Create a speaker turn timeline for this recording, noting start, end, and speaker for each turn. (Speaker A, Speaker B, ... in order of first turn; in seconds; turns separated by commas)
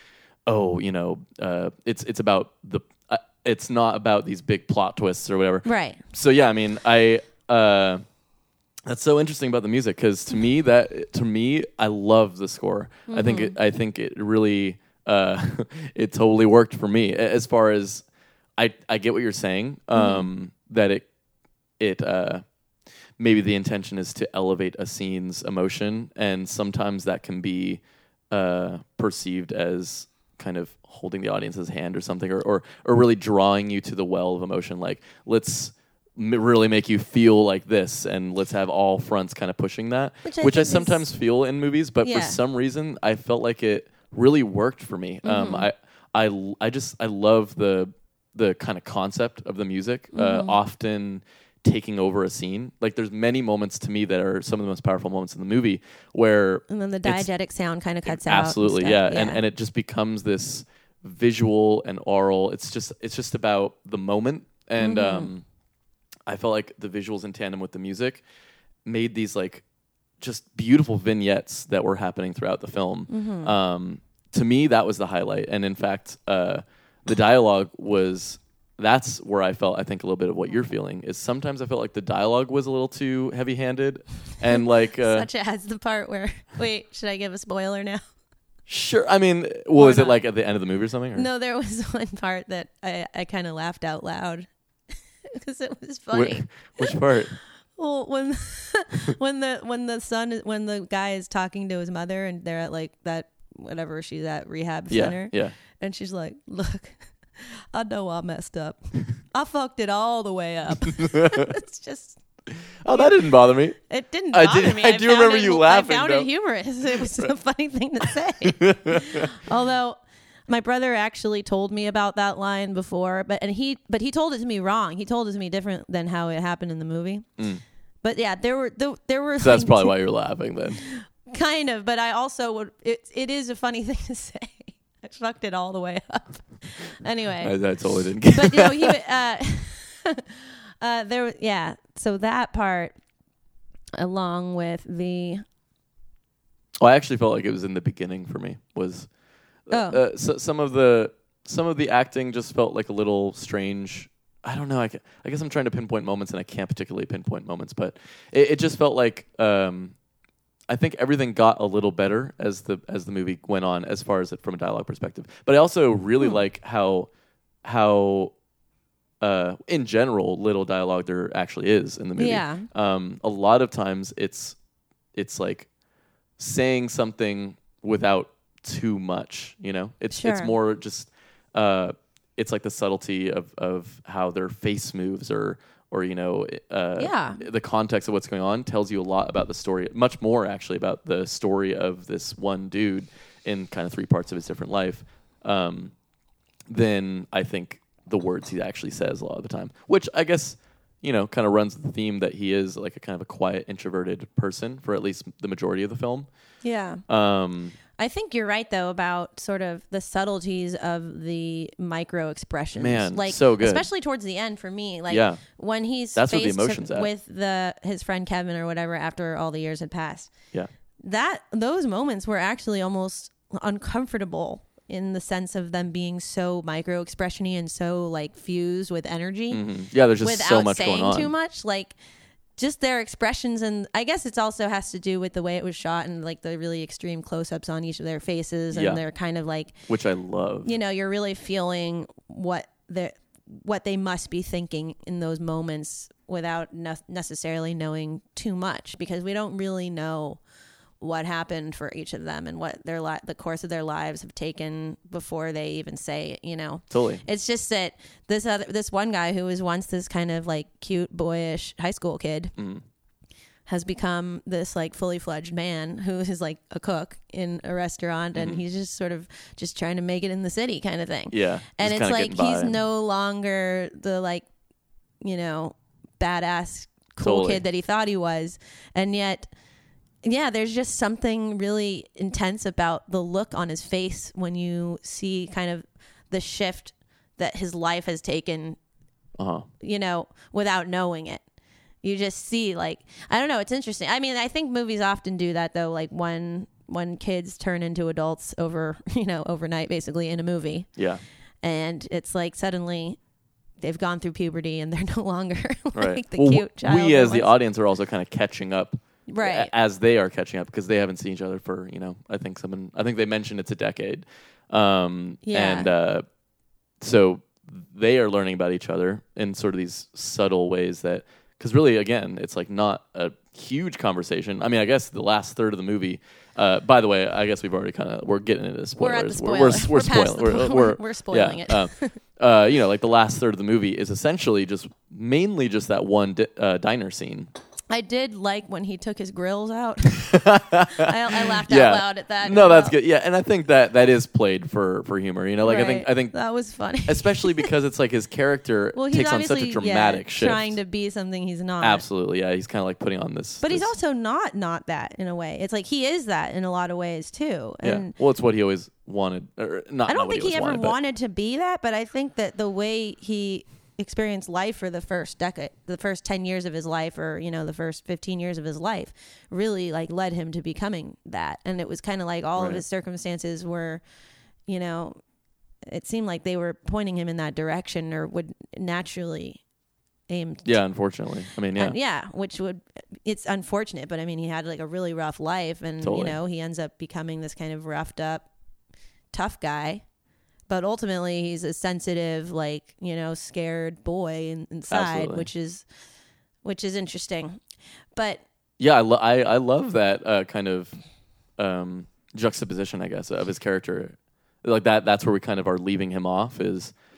Speaker A: 0.5-8.0, Speaker B: 5.6-6.0, Speaker A: 8.8-18.0, Speaker B: 13.1-13.6, Speaker A: 18.6-21.1, Speaker B: 19.9-20.3, Speaker A: 21.8-22.4, Speaker A: 23.2-57.3, Speaker B: 40.2-41.0, Speaker B: 42.0-42.4, Speaker B: 45.2-45.7, Speaker B: 50.1-50.6, Speaker B: 56.7-59.4, Speaker A: 58.0-65.4, Speaker B: 64.8-65.3, Speaker A: 66.3-68.2, Speaker A: 68.8-69.6, Speaker A: 70.2-85.3, Speaker B: 73.1-73.5, Speaker B: 84.5-88.0, Speaker A: 88.7-91.3, Speaker B: 89.7-90.2, Speaker B: 91.1-94.5, Speaker B: 95.3-97.0, Speaker A: 96.1-97.3, Speaker B: 97.8-112.2, Speaker A: 104.9-105.5, Speaker A: 110.9-111.5, Speaker A: 112.8-113.8, Speaker B: 112.9-113.2, Speaker B: 113.8-127.3, Speaker A: 114.3-116.3, Speaker A: 116.9-117.3, Speaker A: 118.4-119.5, Speaker B: 128.0-129.9, Speaker A: 129.4-130.8, Speaker B: 130.8-137.6, Speaker A: 137.4-139.0, Speaker B: 138.3-142.9, Speaker B: 143.9-145.4, Speaker A: 146.8-149.1, Speaker A: 149.7-159.9, Speaker B: 149.7-150.0, Speaker A: 160.7-167.1, Speaker A: 167.6-168.3, Speaker A: 169.2-174.6, Speaker B: 172.2-172.7, Speaker A: 175.1-175.7, Speaker A: 176.4-195.9, Speaker B: 180.1-180.5, Speaker B: 187.0-187.4, Speaker A: 196.7-206.3, Speaker B: 206.6-207.0, Speaker A: 207.1-207.8, Speaker B: 208.0-220.3, Speaker A: 212.8-213.8, Speaker A: 215.1-215.4, Speaker A: 216.1-217.1, Speaker B: 221.0-229.6, Speaker A: 229.5-231.3, Speaker B: 230.2-231.9, Speaker B: 232.6-239.8, Speaker A: 238.7-239.0, Speaker A: 239.9-240.7, Speaker B: 240.6-250.4, Speaker B: 251.0-262.5, Speaker A: 256.9-257.2, Speaker A: 262.6-262.8, Speaker B: 263.6-274.4, Speaker A: 268.3-268.6, Speaker A: 271.3-272.8, Speaker B: 275.2-279.5, Speaker A: 277.2-277.6, Speaker B: 280.2-288.8, Speaker A: 289.4-289.7, Speaker B: 289.8-291.4, Speaker B: 292.0-300.9, Speaker A: 301.0-301.2, Speaker B: 301.6-303.2, Speaker B: 303.8-307.5, Speaker A: 305.9-316.2, Speaker B: 309.3-309.7, Speaker B: 315.4-315.9, Speaker A: 317.0-337.5, Speaker B: 329.0-332.2, Speaker B: 337.9-342.9, Speaker A: 340.1-346.3, Speaker B: 345.6-347.7, Speaker A: 347.1-350.7, Speaker B: 348.9-352.0, Speaker A: 351.8-353.9, Speaker B: 353.6-358.1, Speaker A: 357.8-360.9, Speaker B: 360.1-374.0, Speaker A: 372.6-372.8, Speaker B: 374.7-375.2, Speaker B: 375.9-379.6, Speaker B: 380.3-380.8, Speaker A: 380.6-381.9, Speaker B: 381.8-388.5, Speaker A: 386.0-386.4, Speaker B: 389.3-390.0, Speaker B: 390.7-395.8, Speaker A: 394.9-395.5, Speaker B: 396.6-397.6, Speaker B: 398.1-398.4, Speaker A: 398.8-401.0, Speaker A: 401.6-406.9